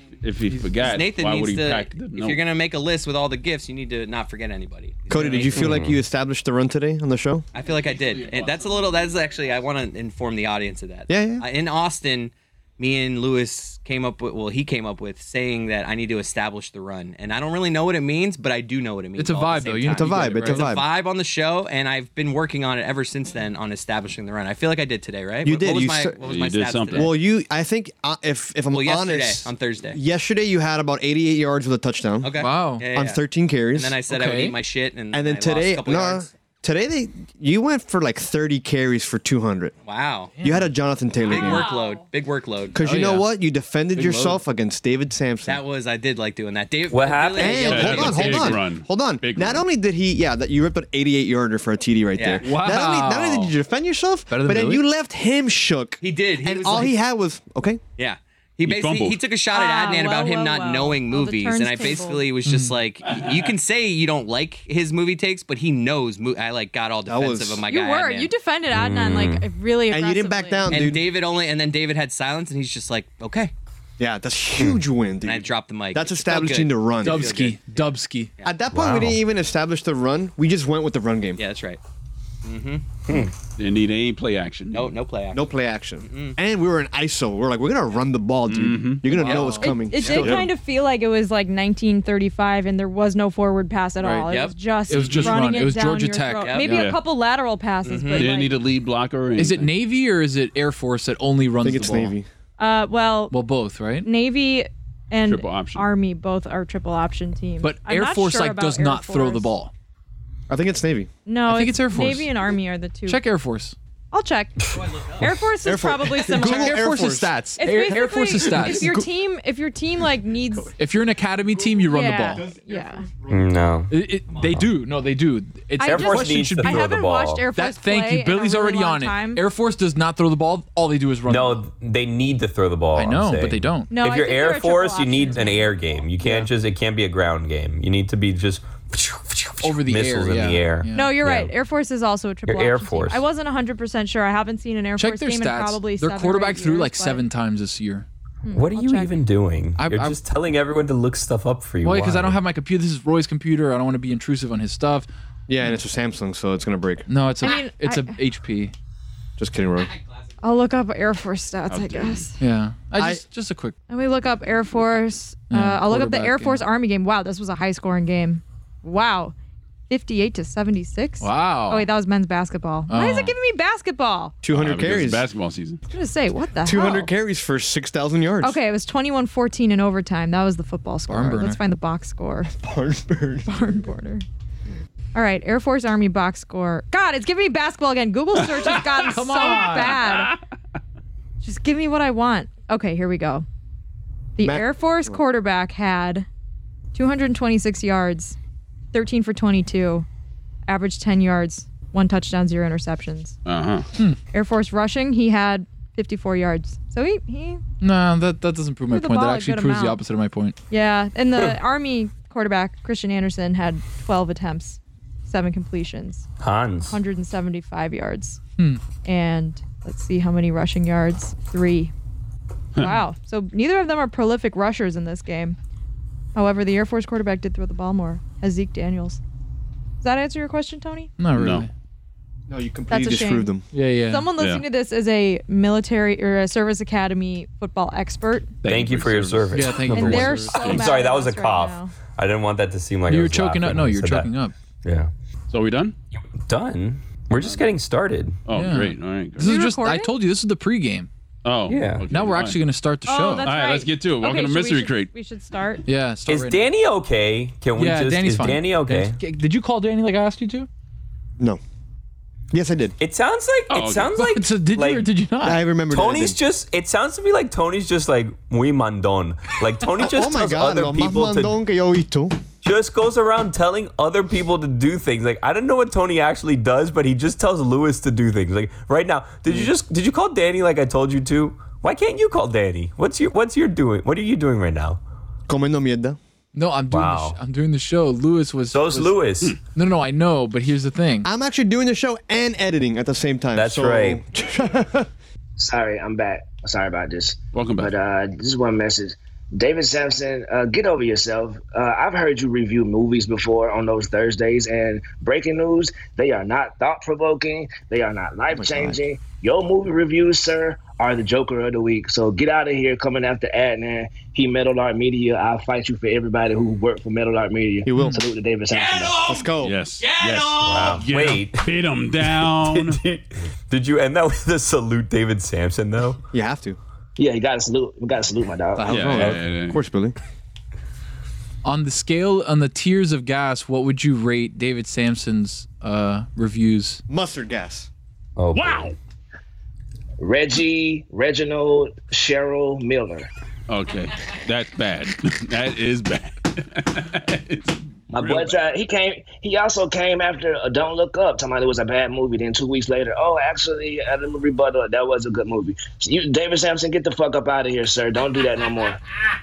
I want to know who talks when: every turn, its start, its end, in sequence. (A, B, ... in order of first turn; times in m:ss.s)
0:00.2-0:02.4 A
0:00.8-0:05.7 B
0:05.1-0:07.5 C
0:05.6-0:06.0 D
0:07.5-0:27.2 B
0:07.6-0:09.2 A
0:11.1-0:11.4 C
0:19.2-0:20.7 E
0:20.0-0:20.8 C
0:25.4-0:26.2 C
0:26.2-0:27.2 A
0:26.9-0:32.4 C
0:28.7-0:30.0 B
0:32.2-0:36.3 B
0:32.4-0:32.8 E
0:32.9-0:34.0 C
0:34.1-0:34.6 E
0:35.1-0:39.7 C
0:39.8-0:40.3 B
0:40.4-0:40.7 E
0:40.4-0:41.7 C
0:41.3-0:42.8 B
0:41.3-0:42.0 F
0:42.7-0:45.6 C
0:42.8-0:43.3 E
0:44.0-0:44.4 E
0:45.4-0:48.6 B
0:46.9-0:47.9 D
0:47.4-0:57.8 C
0:47.6-0:49.6 A
0:52.2-0:52.4 B
0:52.4-0:53.5 E
0:54.3-0:54.8 E
0:56.0-0:57.0 B
0:58.0-1:08.3 B
0:58.6-0:59.2 A
0:59.5-1:02.3 F
1:02.4-1:02.8 E
1:03.1-1:03.5 A
1:07.1-1:07.6 C
1:07.7-1:10.8 F
1:08.7-1:09.5 D
1:09.9-1:11.1 C
1:10.7-1:13.5 B
1:14.0-1:17.4 C
1:15.2-1:18.5 B
1:17.0-1:18.3 E
1:18.4-1:21.4 C
1:18.7-1:19.2 D
1:21.4-1:21.8 B
1:22.4-1:22.9 B
1:23.6-1:24.9 A
1:24.7-1:25.5 B
1:25.3-1:30.5 C
1:26.0-1:26.4 B
1:28.5-1:29.1 A
1:29.1-1:29.8 E
1:29.2-1:30.4 B
1:29.5-1:38.6 F
1:34.0-1:34.3 E
1:34.3-1:34.6 B
1:34.9-1:36.6 E
1:34.9-1:35.4 A
1:36.4-1:36.9 B
1:36.6-1:37.0 A
1:37.8-1:38.4 B
1:38.2-1:39.7 A
1:39.4-1:42.2 E
1:41.6-1:42.3 C
1:42.6-1:43.4 F
1:43.3-1:44.1 E
1:44.0-1:49.5 F
1:45.2-1:45.9 A
1:47.6-1:49.7 E
1:50.5-1:51.1 C
1:51.3-1:53.2 F
1:51.5-1:52.3 E
1:53.1-1:53.8 E
1:54.1-1:56.8 F
1:54.8-1:55.2 B
1:55.2-1:57.4 C
1:56.3-1:59.0 E
1:57.6-2:00.7 F
2:00.8-2:02.4 E
2:01.8-2:03.1 F
2:02.7-2:03.4 C
2:03.3-2:03.9 D
2:03.9-2:06.8 E
2:05.8-2:09.4 F
2:05.8-2:07.5 D
2:06.0-2:06.4 C
2:07.6-2:11.6 E
2:11.3-2:21.5 D
2:13.0-2:13.9 E
2:13.9-2:15.8 F
2:16.2-2:16.5 E
2:19.6-2:21.1 E
2:20.9-2:27.2 F
2:22.5-2:23.2 D
2:25.0-2:28.1 E
2:28.4-2:29.2 F
2:28.5-2:32.4 D
2:29.8-2:30.2 E
2:31.8-2:35.1 E
2:35.5-2:37.1 C
2:37.1-2:38.7 E
2:37.4-2:38.2 F
2:39.4-2:39.9 C
2:40.4-2:42.4 F
2:41.7-2:42.3 A
2:42.4-2:43.8 E
2:43.0-2:43.2 C
2:43.9-2:49.3 F
2:45.5-2:46.6 E
2:49.9-2:54.4 F
2:51.2-2:51.9 E
2:52.9-2:53.3 E
2:54.4-2:55.3 C
2:54.5-2:55.8 A
2:55.9-2:57.1 F
2:56.6-2:58.6 C
2:58.4-3:02.5 F
3:01.1-3:01.6 E
3:02.5-3:03.6 C
3:03.5-3:04.2 F
3:05.2-3:10.4 F
3:08.4-3:09.1 A
3:09.0-3:10.0 E
3:09.7-3:10.4 A
3:11.4-3:13.5 F
3:14.4-3:16.3 F
3:14.4-3:15.2 C
3:16.9-3:18.4 F
3:18.9-3:20.1 F
3:20.7-3:23.4 F
3:23.4-3:23.9 A
3:24.3-3:27.6 F
3:27.8-3:30.6 E
3:28.9-3:30.0 F
3:30.7-3:36.3 F
3:36.4-3:37.0 D
3:36.8-3:38.4 F
3:38.6-3:38.8 E
3:39.0-3:41.9 F
3:42.8-3:45.6 F
3:46.4-3:49.2 F
3:50.0-3:51.1 F
3:51.2-3:51.7 E
3:51.4-3:51.7 A
3:52.5-3:53.6 C
3:52.9-3:58.6 F
3:53.7-3:54.3 E
3:54.3-3:54.7 A
3:58.6-4:00.0 A
3:58.7-4:04.3 D
3:59.5-4:00.8 E
4:00.0-4:02.0 F
4:00.5-4:00.9 A
4:03.1-4:04.5 E
4:04.8-4:05.1 D
4:05.5-4:06.0 A
4:06.4-4:08.4 D
4:07.4-4:07.7 A
4:08.5-4:09.6 A
4:08.5-4:11.1 E
4:09.4-4:10.1 F
4:11.4-4:12.6 A
4:11.7-4:12.1 D
4:12.1-4:13.5 E
4:13.1-4:15.8 F
4:13.4-4:15.1 A
4:15.8-4:16.7 E
4:16.3-4:19.2 D
4:17.8-4:20.7 E
4:22.5-4:23.0 C
4:23.0-4:25.1 D
4:23.7-4:24.2 A
4:24.2-4:25.6 E
4:25.4-4:26.4 C
4:25.9-4:31.6 D
4:30.0-4:32.4 C
4:32.6-4:45.0 D
4:45.5-4:46.2 C
4:46.5-4:49.2 E
4:46.9-4:47.4 D
4:48.7-4:49.6 D
4:49.7-4:51.3 E
4:51.2-4:55.1 C
4:53.6-4:54.2 D
4:55.6-5:19.2 G
4:57.5-4:57.9 A
5:08.5-5:09.0 C
5:17.8-5:18.3 C
5:19.0-5:19.4 B
5:19.2-5:19.8 C
5:19.6-5:23.0 A
5:20.0-5:20.9 B
5:20.6-5:26.2 D
5:26.3-5:26.8 C
5:27.2-5:29.0 G
5:28.8-5:29.3 E
5:28.9-5:29.8 A
5:28.9-5:30.2 C
5:31.6-5:37.0 E
5:37.1-5:37.9 C
5:38.4-5:39.0 D
5:38.5-5:39.0 A
5:40.2-5:43.3 G
5:43.7-5:48.6 A
5:48.1-5:59.0 G